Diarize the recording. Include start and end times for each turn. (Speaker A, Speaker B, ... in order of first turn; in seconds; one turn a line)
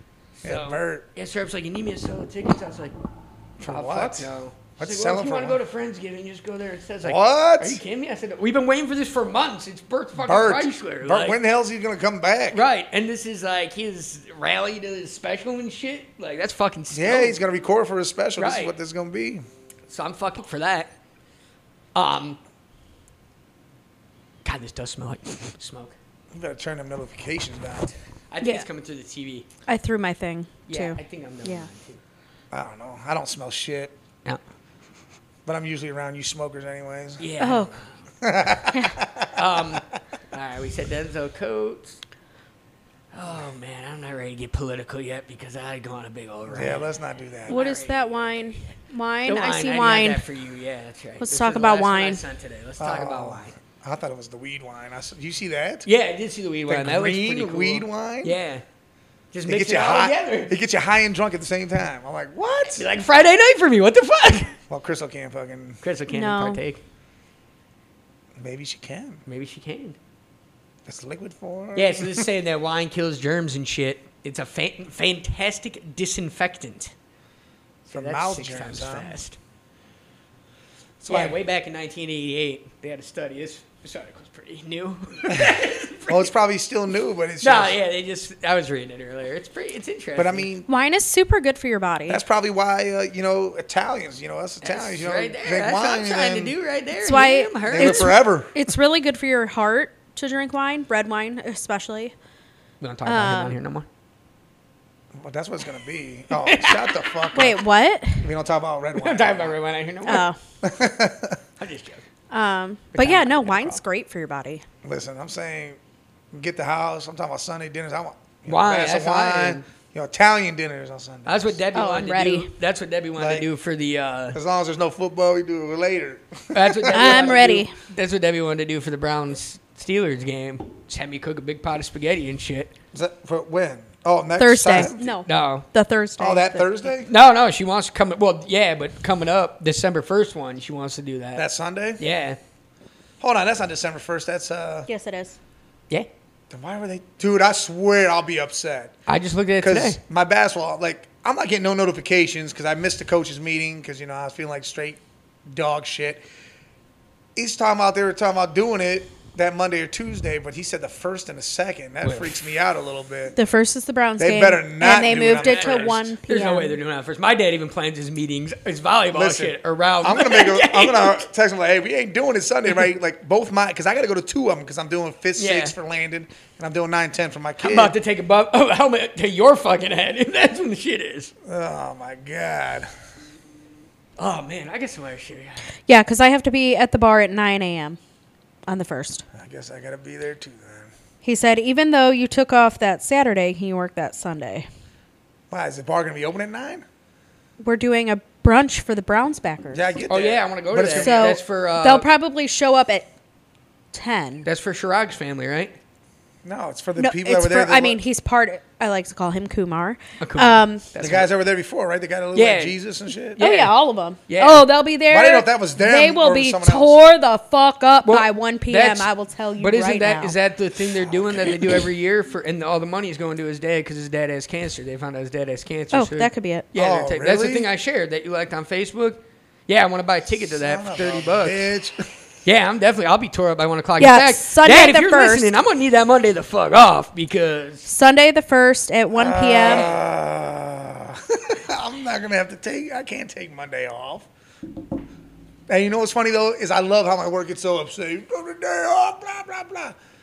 Speaker A: 0.4-2.9
Speaker B: 0.4-1.1
Speaker B: 3.6-5.6
Speaker A: 3.6-11.4
Speaker B: 7.0-7.8
Speaker B: 10.2-12.6
Speaker A: 12.5-17.4
Speaker B: 16.9-19.4
Speaker A: 18.4-18.7
Speaker A: 19.9-20.9
Speaker A: 21.9-22.4
Speaker A: 24.4-25.9
Speaker B: 26.3-27.9
Speaker A: 28.3-29.4
Speaker C: 29.7-31.7
Speaker A: 30.7-32.0
Speaker B: 32.5-33.9
Speaker B: 35.5-37.2
Speaker A: 37.2-37.9
Speaker C: 37.4-37.8
Speaker B: 38.2-39.3
Speaker A: 39.4-42.0
Speaker A: 43.1-46.8
Speaker B: 46.5-47.6
Speaker A: 47.5-48.3
Speaker C: 47.5-50.2
Speaker A: 49.2-53.5
Speaker C: 51.2-52.2
Speaker B: 52.8-55.9
Speaker A: 55.8-58.6
Speaker B: 56.7-58.4
Speaker A: 59.3-60.5
Speaker B: 59.5-62.9
Speaker A: 62.8-64.5
Speaker B: 64.7-65.8
Speaker A: 65.8-66.8
Speaker C: 66.1-66.6
Speaker B: 68.4-69.2
Speaker A: 69.2-70.0
Speaker B: 70.8-72.3
Speaker A: 71.7-76.9
Speaker A: 77.8-79.4
Speaker B: 77.9-79.2
Speaker B: 81.0-81.4
Speaker A: 81.1-86.3
Speaker B: 86.1-87.8
Speaker A: 87.4-90.5
Speaker B: 90.2-90.7
Speaker C: 90.7-92.2
Speaker B: 92.1-96.5
Speaker A: 94.6-98.1
Speaker C: 97.0-102.1
Speaker B: 97.7-98.6
Speaker A: 102.8-103.8
Speaker C: 103.0-103.6
Speaker B: 105.1-107.6
Speaker A: 106.3-107.1
Speaker C: 107.3-108.3
Speaker B: 108.2-109.5
Speaker A: 109.0-110.3
Speaker C: 110.0-110.4
Speaker B: 110.6-111.4
Speaker A: 111.6-112.0
Speaker C: 112.3-114.6
Speaker A: 112.9-113.8
Speaker B: 114.8-115.8
Speaker B: 116.3-121.6
Speaker A: 118.5-119.7
Speaker A: 121.2-124.4
Speaker C: 121.7-122.5
Speaker B: 123.2-123.5
Speaker B: 124.3-127.4
Speaker A: 126.5-132.7
Speaker C: 126.9-127.7
Speaker B: 132.9-135.1
Speaker C: 134.4-136.7
Speaker A: 134.7-135.7
Speaker B: 136.2-137.1
Speaker A: 137.1-141.4
Speaker B: 141.3-142.0
Speaker A: 142.0-142.4
Speaker B: 143.2-144.9
Speaker C: 144.9-145.4
Speaker B: 146.5-148.9
Speaker A: 149.1-150.0
Speaker B: 149.6-156.2
Speaker B: 157.3-163.3
Speaker A: 162.0-162.3
Speaker C: 163.3-166.8
Speaker B: 164.2-166.1
Speaker A: 165.4-171.3
Speaker B: 169.1-177.9
Speaker A: 175.3-175.7
Speaker A: 177.6-181.3
Speaker B: 181.4-182.9
Speaker A: 184.2-185.7
Speaker C: 185.9-188.0
Speaker C: 188.7-189.2
Speaker B: 189.3-190.9
Speaker C: 191.2-194.7
Speaker B: 195.5-196.8
Speaker C: 197.6-199.9
Speaker B: 199.7-201.3
Speaker A: 200.1-202.1
Speaker C: 200.9-203.1
Speaker C: 203.9-204.4
Speaker A: 204.4-205.8
Speaker B: 206.4-208.0
Speaker C: 207.0-210.8
Speaker A: 210.2-211.3
Speaker B: 211.0-213.4
Speaker A: 212.3-212.8
Speaker A: 213.4-213.7
Speaker C: 213.4-220.3
Speaker A: 214.3-214.7
Speaker B: 215.1-217.0
Speaker A: 218.0-231.7
Speaker B: 221.0-221.5
Speaker C: 225.9-226.7
Speaker B: 226.7-227.7
Speaker B: 230.4-232.1
Speaker A: 232.4-237.9
Speaker C: 234.0-235.5
Speaker C: 237.8-239.9
Speaker B: 239.1-244.3
Speaker B: 245.7-249.9